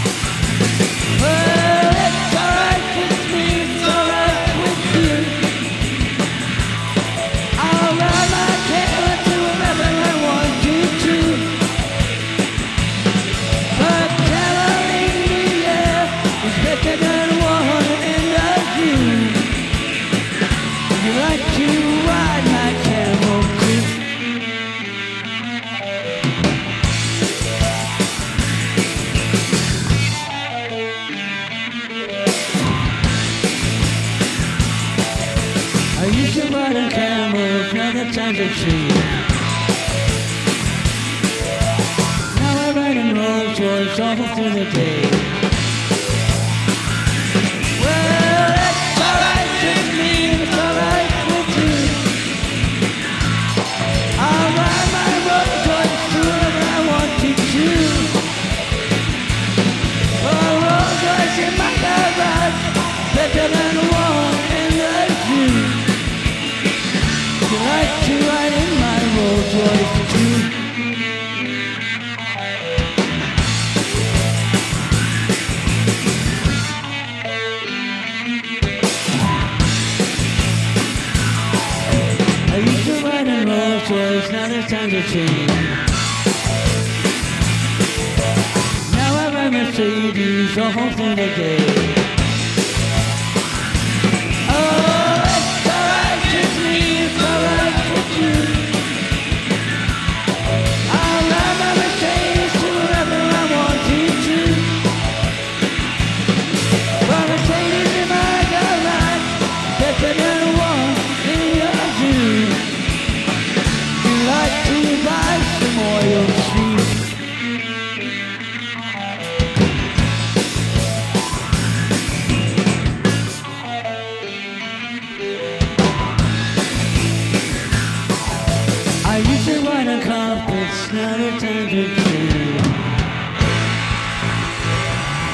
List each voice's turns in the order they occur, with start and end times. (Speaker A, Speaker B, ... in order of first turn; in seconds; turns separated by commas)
Speaker A: 1.2-5.5, Speaker A: 7.6-11.6, Speaker A: 13.7-19.5, Speaker A: 20.9-23.9, Speaker A: 35.9-39.2, Speaker A: 42.3-45.3, Speaker A: 47.8-52.1, Speaker A: 54.2-58.2, Speaker A: 60.2-65.8, Speaker A: 67.5-70.5, Speaker A: 82.5-85.8, Speaker A: 88.9-92.0, Speaker A: 94.5-98.7, Speaker A: 100.9-104.8, Speaker A: 107.0-112.6, Speaker A: 114.0-117.1, Speaker A: 129.0-132.8